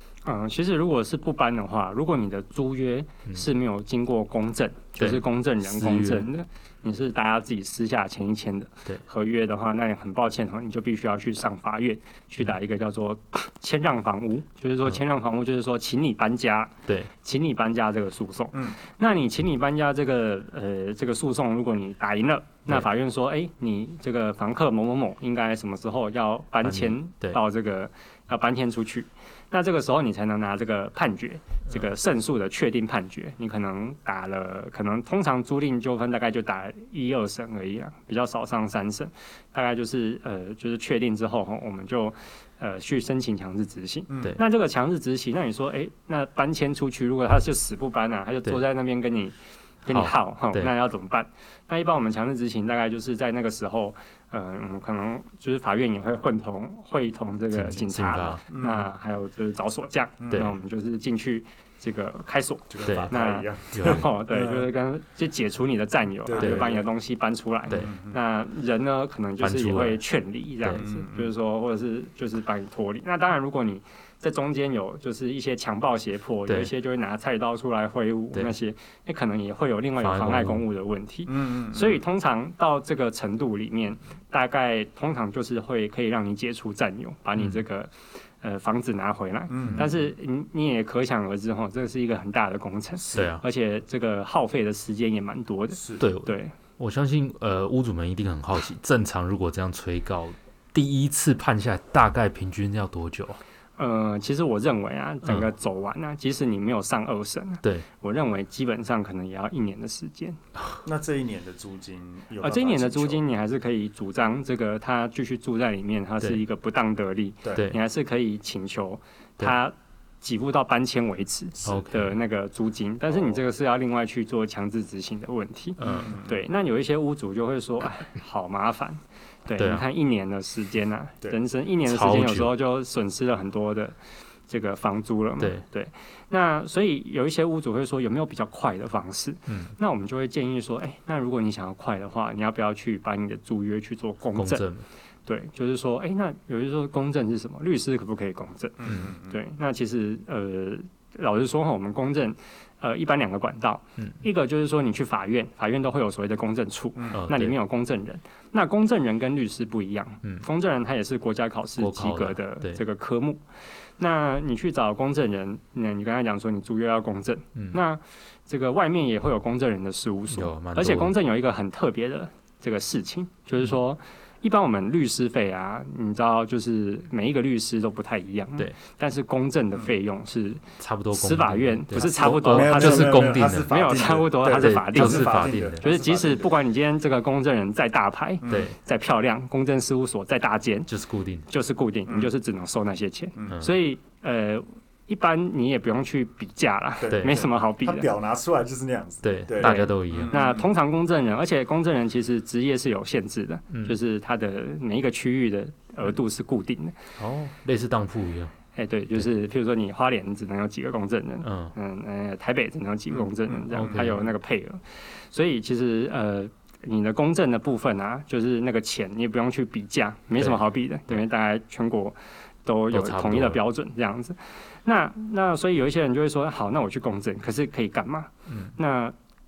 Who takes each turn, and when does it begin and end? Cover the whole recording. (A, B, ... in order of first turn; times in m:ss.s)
0:00.2-1:36.6 A
0:05.0-0:06.3 B
0:18.5-0:18.8 C
0:26.6-0:27.4 B
0:44.1-0:44.4 C
0:49.9-0:50.7 B
0:57.5-0:58.4 B
0:58.5-0:58.9 C
1:00.2-1:00.5 C
1:02.7-1:04.7 C
1:02.8-1:03.1 B
1:03.7-1:04.1 B
1:06.2-1:06.9 C
1:06.4-1:06.7 B
1:07.7-1:08.2 C
1:09.4-1:10.0 B
1:10.7-1:11.3 C
1:20.0-1:20.6 B
1:21.3-1:22.0 C
1:29.5-1:29.9 C
1:33.0-1:33.3 C
1:33.1-1:33.4 B
1:35.7-1:36.0 C
1:36.0-1:43.4 B
1:43.8-1:50.4 A
1:45.2-1:45.5 B
1:50.8-1:53.2 C
1:52.4-2:14.0 A
1:57.5-1:57.8 B
2:01.6-2:02.2 B
2:03.1-2:03.4 C
2:05.8-2:06.1 B
2:05.8-2:06.4 C
2:09.6-2:09.8 B
2:11.8-2:12.5 B
2:14.5-2:24.7 A
2:24.4-2:24.8 B
2:25.2-2:43.4 A
2:28.8-2:29.4 C
2:37.1-2:37.5 B
2:41.8-2:42.8 B
2:44.0-3:10.9 A
2:50.3-2:51.2 B
3:00.8-3:03.8 B
3:01.9-3:06.6 C
3:04.5-3:05.8 B
3:08.4-3:08.7 C
3:08.4-3:08.7 B
3:10.9-3:11.4 B
3:11.5-3:18.1 A
3:17.0-3:20.7 C
3:19.2-3:20.4 B
3:19.6-3:27.0 A
3:27.2-3:28.5 B
3:28.7-3:49.1 A
3:31.4-3:31.7 B
3:33.1-3:33.7 C
3:33.7-3:34.2 B
3:40.4-3:41.2 B
3:42.9-3:43.6 B
3:48.5-3:48.7 B